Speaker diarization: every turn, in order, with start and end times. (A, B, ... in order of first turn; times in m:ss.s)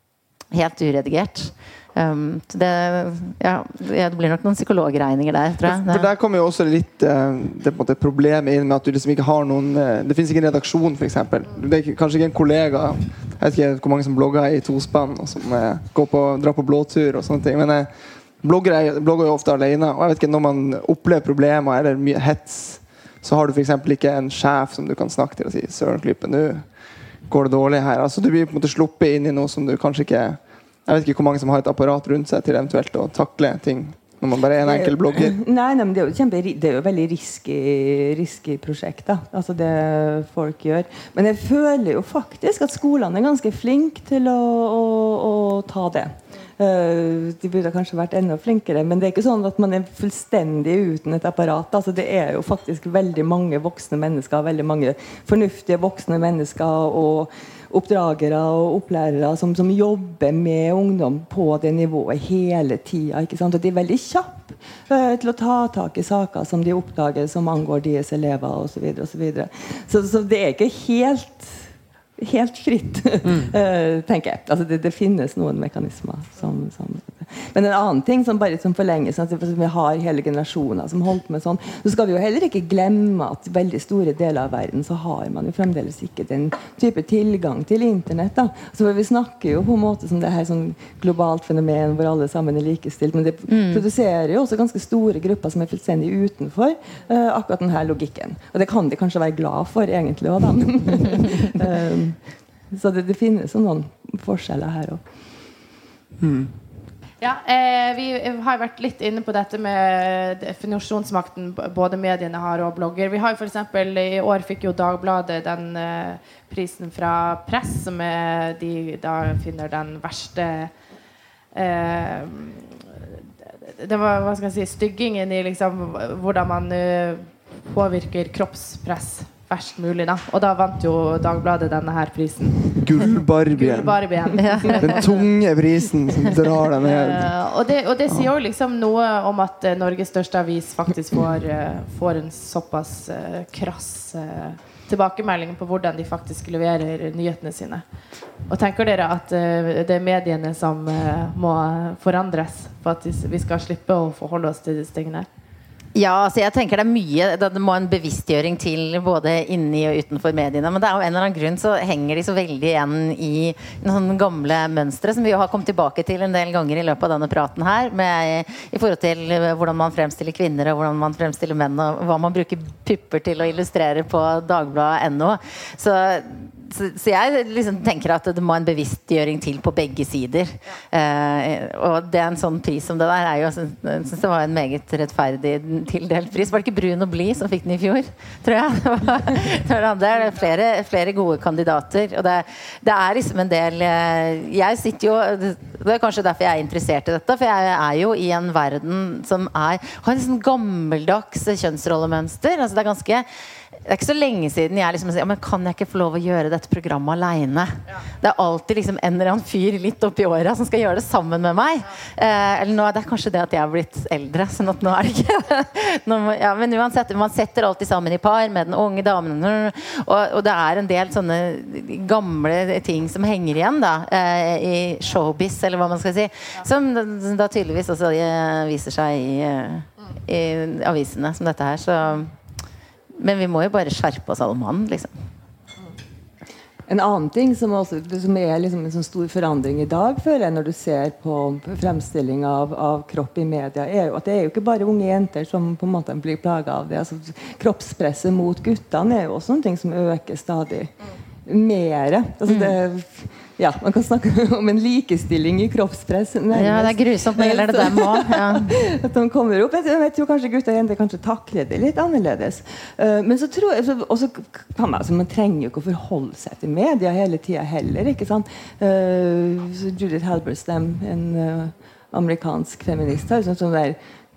0:00.5-0:06.1 A
0:05.6-0:26.8 B
0:27.3-0:35.4 B
0:34.6-1:45.0 C
1:13.3-1:13.5 B
1:33.5-1:33.8 A
1:46.2-1:46.5 B
1:47.2-2:00.7 D
2:01.5-2:02.8 D
2:03.8-2:15.3 D
2:12.8-2:14.1 B
2:14.4-2:15.0 A
2:14.6-2:17.3 B
2:16.3-2:27.9 D
2:28.5-2:35.3 D
2:36.0-3:23.3 A
3:23.8-3:52.3 A
3:53.2-3:55.1 A
3:56.9-4:10.9 C
4:11.5-4:34.0 C
4:12.5-4:12.8 A
4:16.5-4:18.8 A